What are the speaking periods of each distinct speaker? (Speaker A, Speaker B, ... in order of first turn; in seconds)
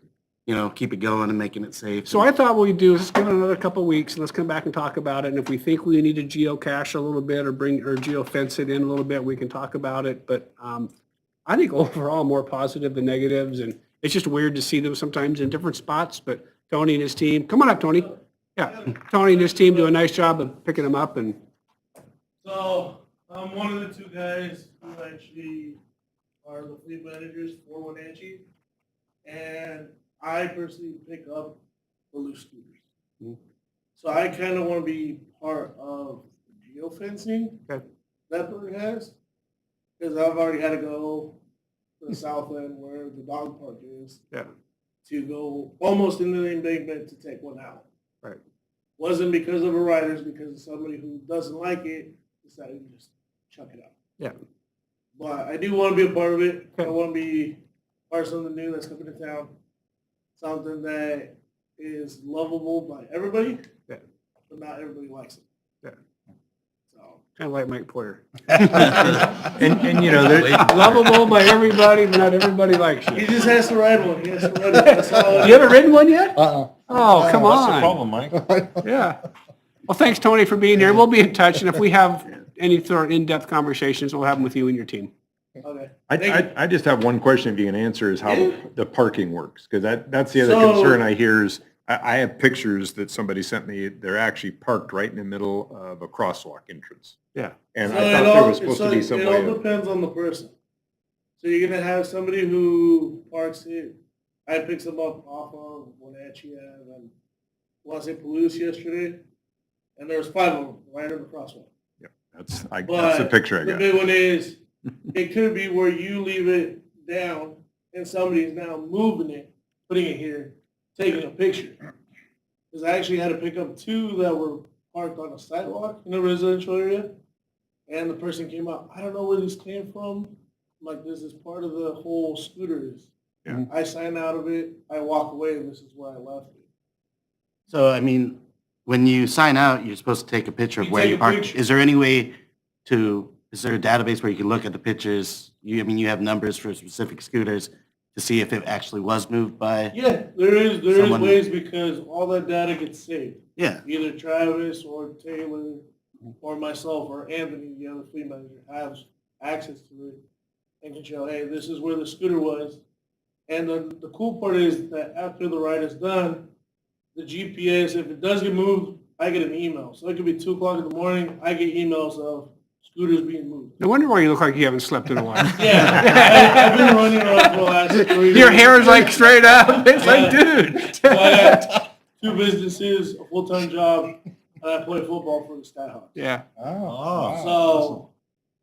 Speaker A: 0.5-2.3, 137.7-149.9, 150.9-151.4, 153.6-153.8
Speaker B: 2.1-10.9, 11.5-21.4, 67.4-69.3, 70.4-73.6, 74.8-78.0, 78.8-79.2, 79.9-85.1, 173.8-181.8, 186.2-186.5
Speaker C: 17.9-20.1, 22.4-25.8, 26.4-28.4, 29.2-32.8, 34.0-37.7, 38.3-39.2, 40.0-41.4, 42.0-44.2, 45.0-47.9, 49.0-54.0, 55.2-59.5, 60.4-63.7, 64.5-65.5, 66.9-67.2, 73.1-75.8, 85.6-86.5, 88.2-88.6, 90.4-91.0, 97.8-100.5, 101.4-107.1, 107.8-109.2, 110.0-111.7, 112.8-114.6, 115.1-121.8, 122.7-127.2, 127.9-136.7, 140.8-141.6, 149.9-155.8, 156.4-160.2, 160.8-162.8, 163.5-166.5, 167.2-173.8, 175.5-186.2, 187.2-188.1
Speaker D: 69.4-71.1, 77.0-78.7, 86.1-99.6, 112.0-114.0, 186.7-187.4